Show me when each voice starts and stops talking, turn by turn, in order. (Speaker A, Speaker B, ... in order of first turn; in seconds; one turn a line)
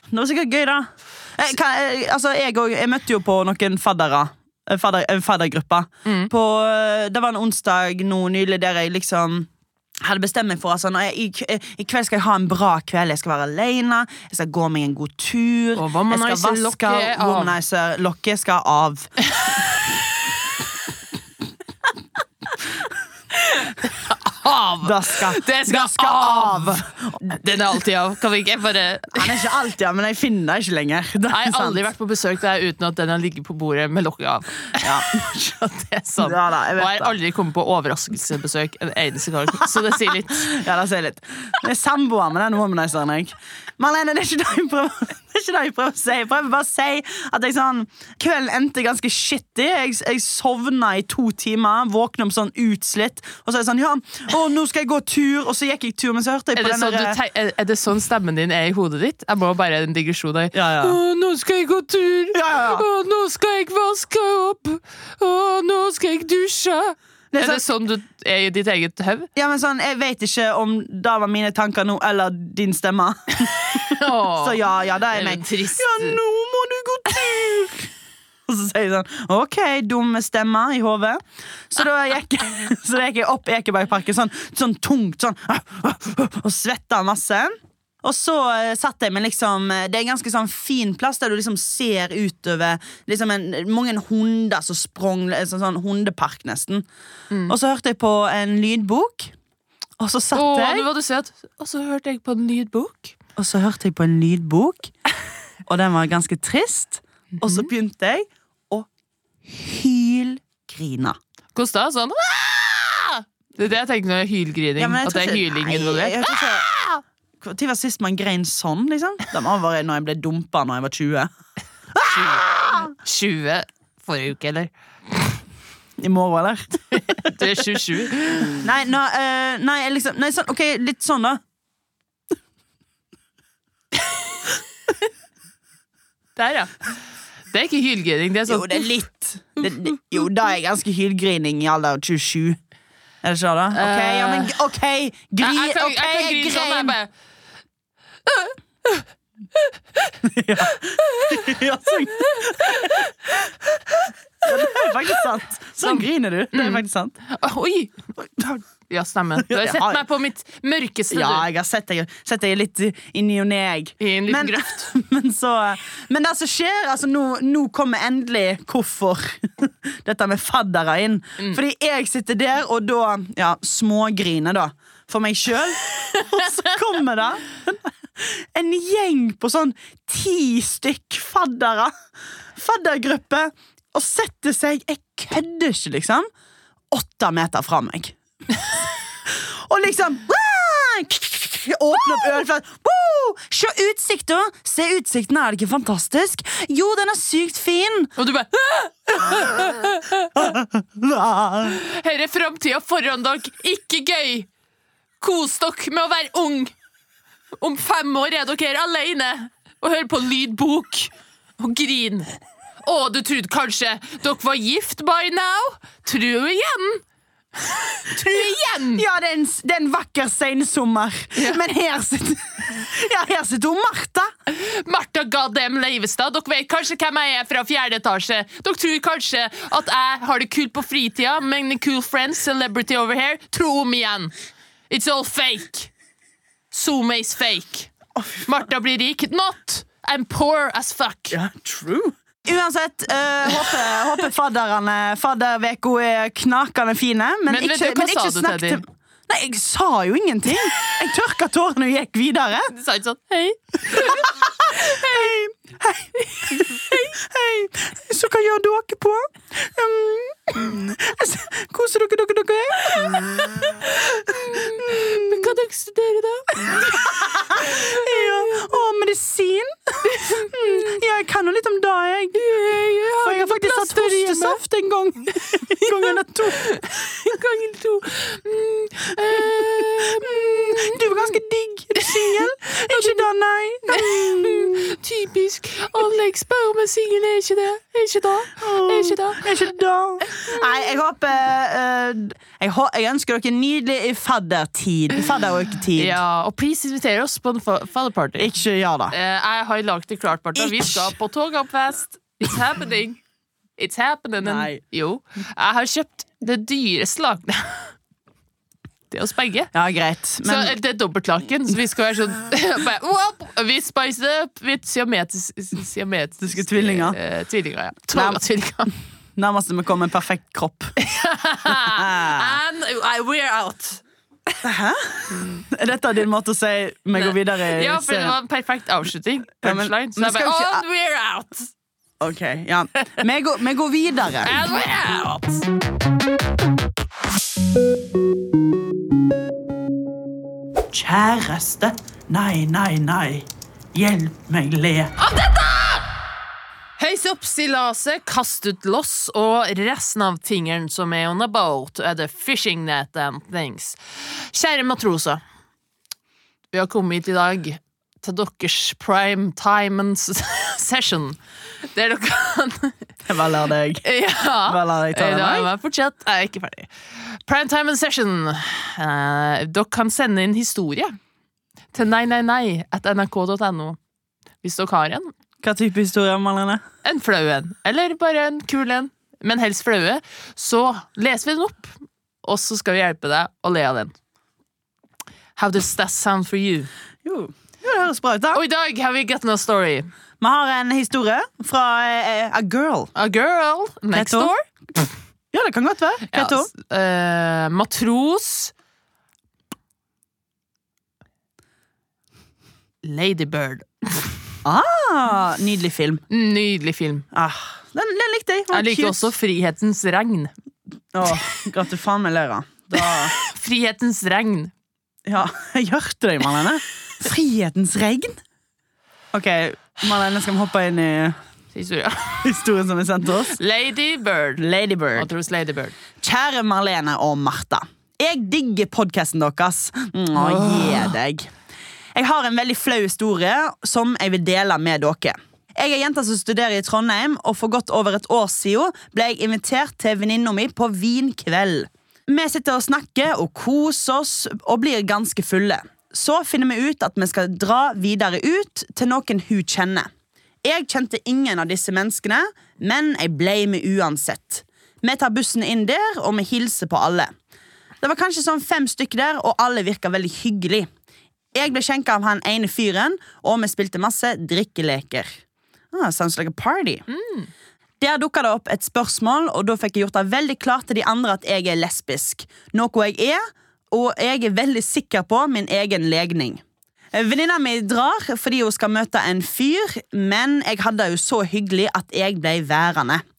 Speaker A: 0.1-9.5
Speaker B: 6.0-6.3
Speaker A: 10.0-19.1
Speaker B: 15.8-17.6
Speaker B: 19.3-19.9
Speaker B: 23.3-29.5
Speaker A: 24.8-27.4
Speaker A: 29.1-31.8
Speaker B: 31.3-40.5
Speaker A: 34.8-35.5
Speaker A: 36.2-37.1
Speaker A: 40.3-57.2
Speaker B: 56.5-69.3
Speaker A: 60.5-61.0
Speaker A: 62.3-62.8
Speaker A: 67.3-67.6
Speaker A: 69.3-77.9
Speaker B: 73.4-74.6
Speaker B: 75.1-76.2
Speaker A: 78.5-96.8
Speaker A: 97.5-99.3
Speaker A: 100.0-100.9
Speaker B: 100.3-103.1
Speaker A: 103.3-104.9
Speaker A: 105.7-108.9
Speaker B: 107.4-107.7
Speaker A: 109.5-111.2
Speaker B: 111.5-117.0
Speaker A: 114.8-116.7
Speaker A: 117.4-121.3
Speaker A: 121.9-122.9
Speaker B: 122.1-125.4
Speaker A: 126.0-127.0
Speaker B: 126.9-128.6
Speaker A: 128.6-131.4
Speaker B: 136.3-136.9
Speaker B: 137.5-138.9
Speaker A: 138.5-142.6
Speaker A: 143.2-146.9
Speaker B: 143.7-144.6
Speaker B: 145.4-147.1
Speaker B: 148.3-150.1
Speaker A: 150.2-157.1
Speaker B: 150.7-153.1
Speaker B: 154.5-155.2
Speaker B: 155.8-161.5
Speaker A: 159.4-160.0
Speaker A: 161.1-181.9
Speaker B: 164.0-164.9
Speaker B: 176.0-176.6
Speaker A: 182.6-186.3
Speaker A: 186.9-188.2
Speaker A: 189.2-198.1
Speaker B: 198.2-200.5
Speaker A: 199.2-199.6
Speaker A: 200.3-201.8
Speaker B: 201.7-204.5
Speaker B: 205.2-206.7
Speaker B: 207.6-212.3
Speaker B: 212.8-217.0
Speaker B: 217.6-219.0
Speaker A: 218.9-224.3
Speaker B: 224.5-234.3
Speaker B: 234.9-235.9
Speaker B: 236.7-237.9
Speaker B: 238.4-241.4
Speaker A: 241.3-252.7
Speaker B: 247.5-248.8
Speaker B: 252.7-255.3
Speaker A: 253.9-263.6
Speaker B: 256.2-257.1
Speaker B: 262.9-268.7
Speaker A: 264.5-265.5
Speaker A: 266.7-272.5
Speaker B: 270.0-271.0
Speaker B: 272.3-274.6
Speaker A: 273.2-276.7
Speaker B: 275.8-281.3
Speaker A: 279.4-284.9
Speaker B: 282.0-283.2
Speaker B: 283.9-289.5
Speaker A: 288.6-296.2
Speaker B: 290.2-290.6
Speaker B: 295.9-298.5
Speaker A: 298.4-299.1
Speaker B: 299.1-303.2
Speaker A: 300.6-301.1
Speaker B: 303.8-307.9
Speaker A: 304.4-304.8
Speaker B: 309.1-309.7
Speaker A: 309.7-310.7
Speaker B: 310.4-318.9
Speaker A: 316.4-317.2
Speaker A: 318.1-318.4
Speaker A: 319.4-320.9
Speaker B: 321.0-324.0
Speaker A: 321.7-322.6
Speaker A: 324.6-328.4
Speaker B: 325.3-325.6
Speaker B: 327.1-331.7
Speaker A: 329.6-330.8
Speaker A: 332.2-334.6
Speaker B: 334.4-335.7
Speaker A: 340.9-345.1
Speaker B: 345.2-346.1
Speaker B: 347.0-355.4
Speaker B: 356.7-361.4
Speaker B: 361.9-363.0
Speaker A: 363.2-364.0
Speaker B: 364.0-371.1
Speaker A: 364.6-365.7
Speaker B: 371.9-374.0
Speaker B: 374.6-375.3
Speaker A: 375.6-376.8
Speaker B: 377.0-384.1
Speaker B: 385.6-386.9
Speaker A: 387.2-388.6
Speaker B: 388.5-390.1
Speaker A: 390.4-393.1
Speaker B: 393.1-394.6
Speaker A: 394.1-394.5
Speaker A: 395.5-396.7
Speaker B: 396.3-398.7
Speaker B: 403.0-404.3
Speaker A: 404.6-406.2
Speaker B: 406.3-407.2
Speaker A: 407.3-409.3
Speaker B: 408.7-410.5
Speaker A: 411.1-413.3
Speaker B: 413.0-414.7
Speaker A: 415.2-418.4
Speaker A: 419.3-421.4
Speaker B: 421.7-422.5
Speaker A: 422.4-423.6
Speaker B: 423.5-424.6
Speaker A: 424.6-425.3
Speaker B: 425.1-425.9
Speaker A: 426.2-431.5
Speaker B: 430.4-431.1
Speaker A: 432.1-450.1
Speaker A: 450.6-457.3
Speaker A: 458.0-460.9
Speaker A: 461.5-465.4
Speaker A: 465.9-467.0
Speaker B: 467.1-467.5
Speaker A: 468.0-476.6
Speaker A: 477.1-483.2